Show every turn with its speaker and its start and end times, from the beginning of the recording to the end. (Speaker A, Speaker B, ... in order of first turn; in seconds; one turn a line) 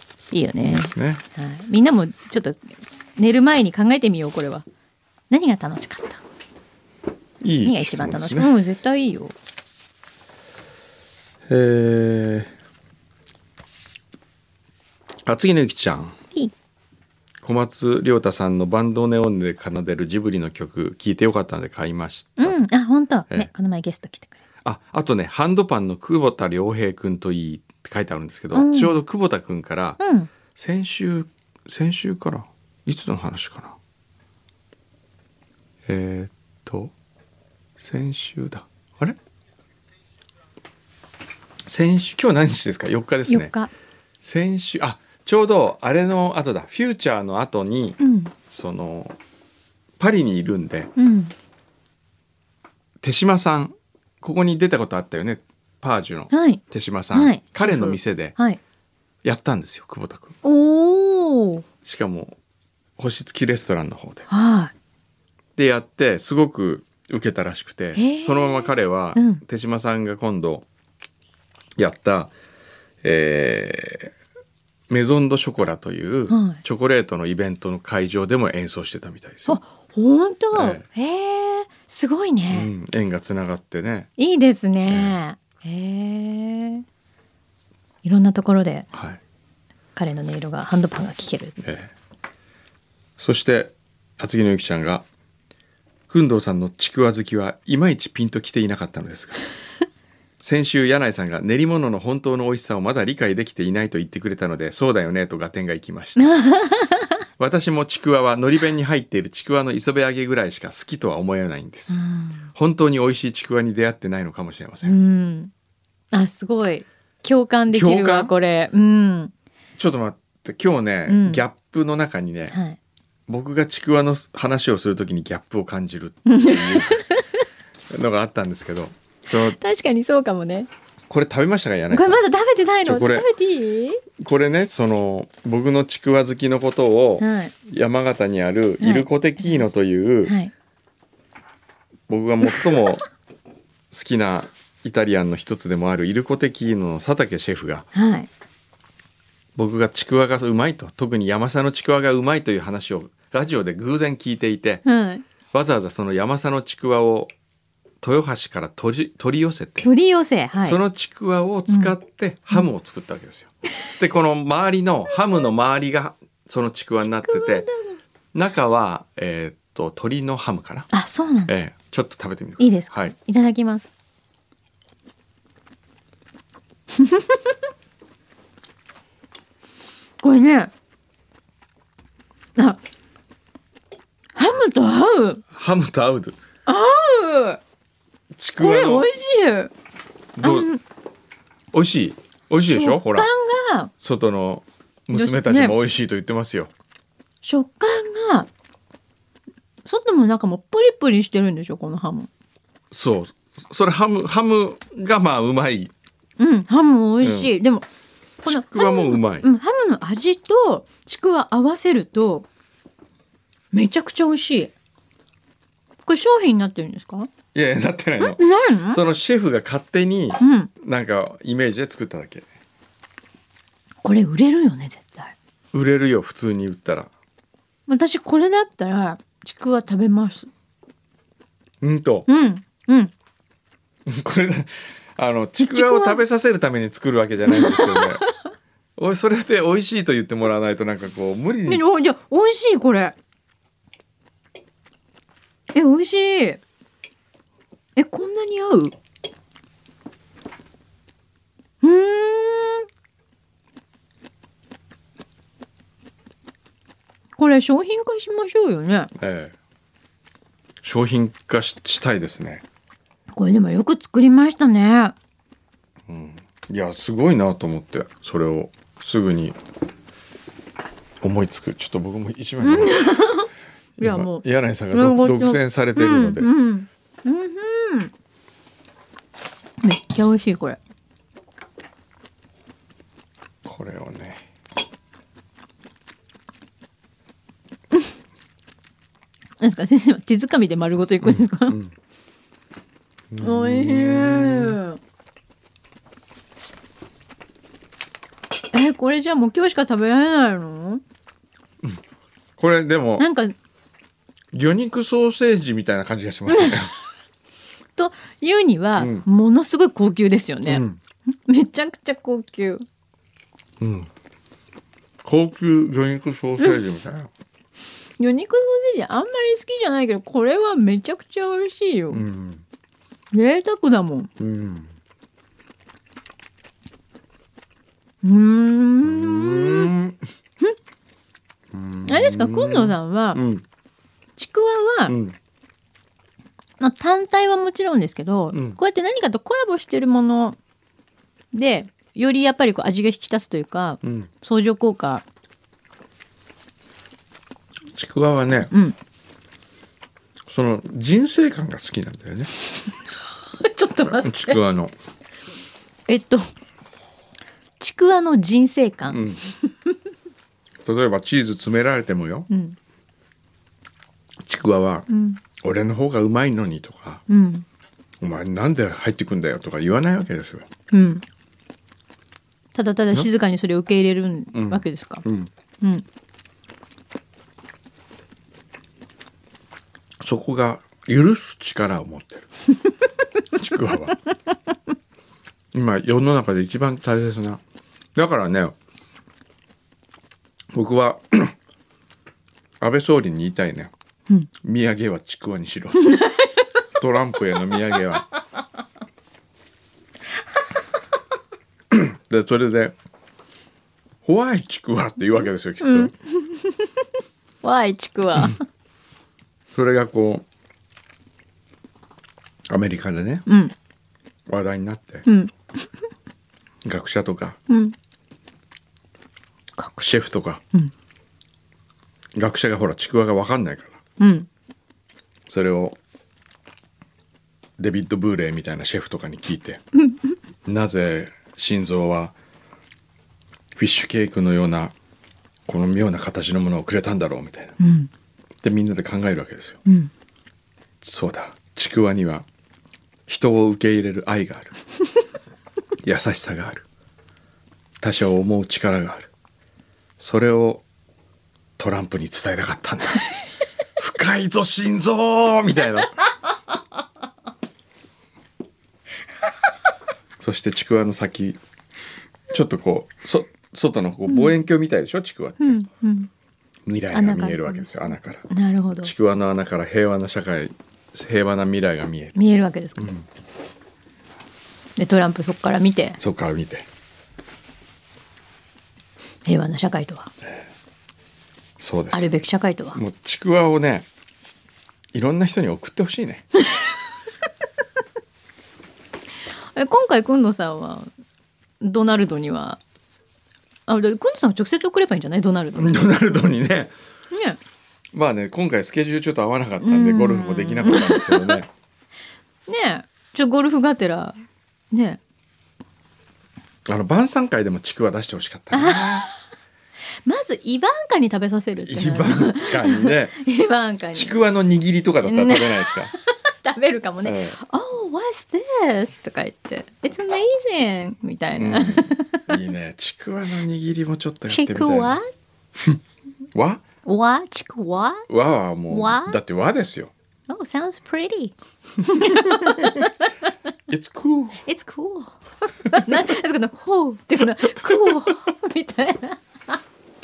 Speaker A: 0.3-2.6
Speaker B: 0.6-1.2
Speaker A: 3.2-4.6
Speaker A: 5.3-6.2
Speaker B: 7.4-8.5
Speaker A: 7.6-9.3
Speaker B: 11.5-12.5
Speaker B: 15.2-16.1
Speaker B: 17.4-22.6
Speaker A: 22.4-24.4
Speaker B: 24.6-30.0
Speaker A: 28.5-29.0
Speaker A: 30.0-30.3
Speaker B: 30.6-33.8
Speaker B: 35.9-36.9
Speaker B: 37.8-39.2
Speaker B: 41.6-43.5
Speaker A: 43.3-43.7
Speaker B: 44.2-49.1
Speaker A: 48.0-48.3
Speaker B: 50.0-50.9
Speaker A: 51.0-51.3
Speaker B: 53.0-58.3
Speaker A: 56.3-56.6
Speaker A: 57.1-58.6
Speaker B: 59.2-60.4
Speaker A: 60.4-61.6
Speaker B: 61.8-62.4
Speaker B: 63.0-64.3
Speaker A: 64.3-64.7
Speaker B: 65.6-70.7
Speaker A: 68.0-69.4
Speaker B: 71.8-72.3
Speaker B: 73.0-74.1
Speaker B: 74.9-79.6
Speaker A: 76.3-76.6
Speaker A: 79.5-82.7
Speaker B: 80.5-80.8
Speaker B: 82.5-84.1
Speaker A: 84.2-86.8
Speaker B: 84.9-85.2
Speaker A: 88.0-88.9
Speaker B: 88.9-89.2
Speaker A: 90.0-91.6
Speaker B: 91.6-91.9
Speaker B: 93.2-95.1
Speaker B: 96.1-99.4
Speaker B: 100.4-106.3
Speaker A: 106.2-107.1
Speaker B: 107.4-112.0
Speaker A: 111.9-112.5
Speaker B: 112.5-115.0
Speaker A: 114.8-115.5
Speaker A: 116.1-119.3
Speaker B: 117.7-118.3
Speaker B: 119.8-122.6
Speaker A: 121.1-121.4
Speaker A: 122.5-122.8
Speaker B: 123.3-127.1
Speaker A: 126.3-127.4
Speaker B: 127.9-129.6
Speaker A: 129.3-130.7
Speaker B: 131.1-132.2
Speaker A: 131.9-134.0
Speaker B: 132.8-133.3
Speaker B: 134.2-140.3
Speaker A: 137.2-137.5
Speaker A: 138.8-139.7
Speaker A: 140.2-140.5
Speaker B: 142.1-143.1
Speaker B: 143.9-147.9
Speaker A: 147.9-148.3
Speaker B: 149.6-154.8
Speaker A: 154.8-155.2
Speaker B: 155.5-157.3
Speaker B: 158.0-159.9
Speaker A: 159.8-160.8
Speaker B: 160.6-167.7
Speaker A: 161.7-162.0
Speaker A: 167.0-168.0
Speaker B: 168.3-170.9
Speaker A: 170.9-171.5
Speaker B: 171.5-173.1
Speaker A: 172.6-173.9
Speaker A: 176.9-177.5
Speaker A: 180.2-180.7
Speaker A: 182.6-182.8
Speaker A: 184.3-185.4
Speaker B: 185.5-186.4
Speaker A: 186.7-187.6
Speaker B: 188.3-189.1
Speaker A: 188.6-189.7
Speaker B: 190.4-190.7
Speaker A: 190.4-190.8
Speaker B: 191.7-193.3
Speaker A: 192.6-193.9
Speaker B: 194.0-196.7
Speaker A: 195.1-195.8
Speaker A: 197.4-198.5
Speaker A: 199.8-202.3
Speaker B: 202.9-205.9
Speaker A: 206.4-207.9
Speaker B: 207.2-207.5
Speaker B: 208.4-209.5
Speaker A: 208.4-212.5
Speaker A: 213.7-214.7
Speaker A: 216.1-217.3
Speaker B: 217.5-222.5
Speaker A: 218.2-219.0
Speaker A: 220.4-220.7
Speaker A: 224.0-225.3
Speaker B: 225.7-227.1
Speaker A: 227.9-230.5
Speaker B: 231.8-232.3
Speaker A: 232.3-233.1
Speaker B: 234.1-238.2
Speaker A: 235.6-236.2
Speaker A: 237.5-238.3
Speaker B: 239.0-241.8
Speaker A: 241.7-243.2
Speaker A: 245.7-246.6
Speaker A: 248.0-248.9
Speaker A: 251.8-252.9
Speaker A: 257.4-259.1
Speaker B: 259.2-259.6
Speaker B: 260.8-262.6
Speaker A: 263.3-265.1
Speaker B: 266.1-269.6
Speaker B: 271.2-273.4
Speaker A: 272.6-278.1
Speaker B: 274.0-276.5
Speaker A: 279.8-280.8
Speaker B: 283.6-284.4
Speaker A: 289.6-291.8
Speaker B: 291.2-291.9
Speaker B: 293.3-294.8
Speaker A: 293.4-295.0
Speaker A: 298.7-301.0
Speaker B: 302.6-303.3
Speaker A: 303.2-303.5
Speaker B: 304.5-306.9
Speaker A: 306.5-306.8
Speaker A: 308.0-312.8
Speaker B: 309.0-309.2
Speaker B: 310.6-311.0
Speaker B: 313.8-314.1
Speaker B: 315.2-317.3
Speaker A: 318.2-322.2
Speaker B: 322.1-322.6
Speaker A: 323.3-324.3
Speaker B: 324.4-324.9
Speaker A: 328.2-329.9
Speaker B: 329.0-330.2
Speaker B: 331.7-333.6
Speaker A: 332.1-333.4
Speaker A: 334.4-335.1
Speaker B: 335.1-335.4
Speaker A: 336.8-340.6
Speaker B: 338.5-338.8
Speaker A: 341.5-345.2
Speaker B: 344.0-344.3
Speaker B: 347.9-348.7
Speaker B: 350.5-352.5
Speaker A: 353.6-354.6
Speaker B: 354.1-354.9
Speaker A: 356.1-356.5
Speaker A: 357.8-360.0
Speaker B: 359.1-359.4
Speaker B: 360.9-362.5
Speaker A: 362.5-362.8
Speaker B: 364.4-365.1
Speaker A: 365.1-365.4
Speaker B: 365.6-367.2
Speaker A: 367.3-367.6
Speaker B: 368.2-370.7
Speaker A: 370.9-371.2
Speaker A: 372.8-375.2
Speaker B: 374.5-375.5
Speaker B: 380.2-382.5
Speaker B: 383.5-384.2
Speaker B: 385.7-387.6
Speaker B: 388.1-388.8
Speaker B: 390.7-391.5
Speaker B: 392.8-393.9
Speaker B: 394.6-396.2
Speaker A: 396.0-396.6
Speaker B: 397.0-398.3
Speaker B: 401.9-402.9
Speaker B: 404.2-406.1
Speaker A: 405.8-407.1
Speaker A: 407.6-408.6
Speaker B: 409.7-410.5
Speaker B: 412.7-413.4
Speaker A: 413.5-413.7
Speaker B: 414.5-415.3
Speaker A: 415.2-415.9
Speaker B: 416.8-417.6
Speaker A: 417.7-417.9
Speaker B: 420.0-420.6
Speaker B: 422.4-424.0
Speaker A: 424.2-424.5
Speaker B: 425.5-426.0
Speaker B: 427.8-429.8
Speaker B: 430.6-432.3
Speaker B: 433.7-434.9
Speaker B: 435.6-437.8
Speaker A: 437.8-438.1
Speaker B: 438.6-439.8
Speaker A: 439.9-440.1
Speaker B: 441.0-442.5
Speaker B: 443.3-444.7
Speaker B: 446.0-446.9
Speaker B: 448.0-449.3
Speaker B: 450.2-450.8
Speaker B: 451.8-453.3
Speaker B: 454.0-456.2
Speaker B: 460.4-461.6
Speaker B: 462.5-465.8
Speaker A: 464.3-464.5
Speaker A: 465.6-466.3
Speaker B: 466.9-468.4
Speaker A: 467.1-467.9
Speaker A: 468.5-469.1
Speaker B: 469.0-472.4
Speaker A: 472.4-473.1
Speaker B: 473.0-473.3
Speaker A: 475.0-476.2
Speaker B: 476.2-476.9
Speaker A: 479.4-480.3
Speaker B: 481.8-482.3
Speaker A: 482.1-483.0
Speaker B: 482.9-484.1
Speaker B: 485.1-486.4
Speaker A: 489.7-491.1
Speaker A: 491.8-492.8
Speaker A: 493.9-496.1
Speaker B: 495.7-496.9
Speaker A: 497.3-497.6
Speaker B: 498.1-501.7
Speaker A: 499.8-501.6
Speaker A: 502.7-504.4
Speaker A: 504.9-505.2
Speaker B: 506.9-509.3
Speaker A: 508.7-509.4
Speaker A: 510.2-514.4
Speaker B: 511.8-513.4
Speaker B: 514.1-516.1
Speaker A: 515.2-522.5
Speaker B: 517.2-517.6
Speaker B: 521.5-525.2
Speaker A: 524.5-525.3
Speaker B: 526.5-526.8
Speaker A: 527.0-528.3
Speaker B: 528.3-530.1
Speaker A: 528.9-529.4
Speaker A: 530.5-533.5
Speaker B: 532.5-533.0
Speaker B: 533.9-534.6
Speaker A: 534.6-539.8